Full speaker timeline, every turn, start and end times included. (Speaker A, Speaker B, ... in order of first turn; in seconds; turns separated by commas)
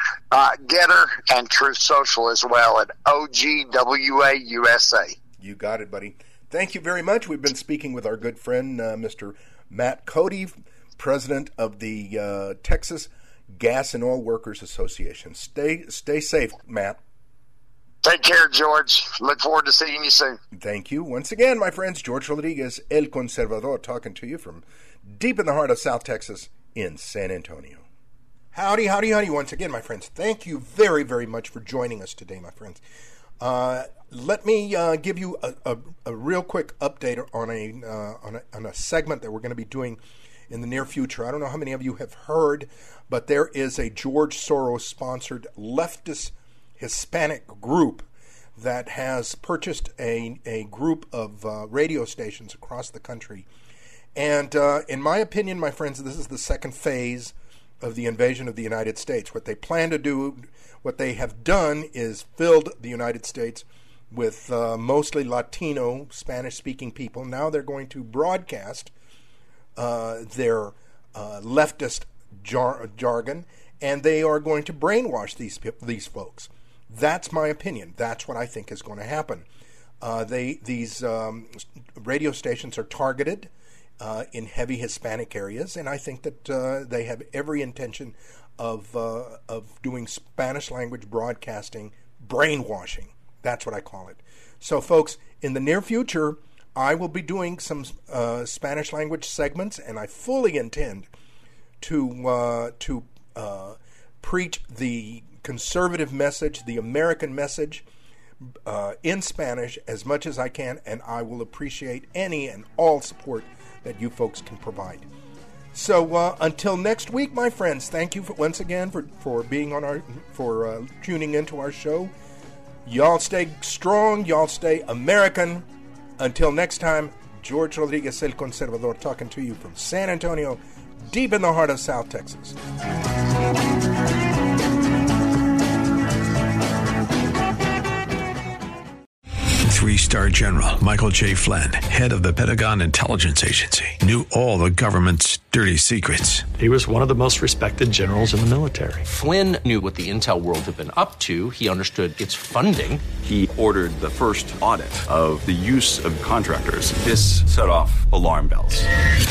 Speaker A: 0.3-5.2, Speaker B: 5.4-17.0, Speaker A: 18.0-20.4, Speaker B: 20.5-27.8, Speaker B: 28.5-32.8, Speaker B: 33.4-53.5, Speaker B: 54.1-68.9, Speaker B: 69.8-79.5, Speaker B: 80.0-101.1, Speaker B: 101.8-107.8, Speaker B: 108.6-115.1, Speaker B: 115.7-122.1, Speaker B: 122.8-125.7, Speaker B: 126.2-132.6, Speaker C: 139.6-146.5, Speaker D: 146.6-149.0, Speaker E: 149.0-153.2, Speaker F: 153.2-158.9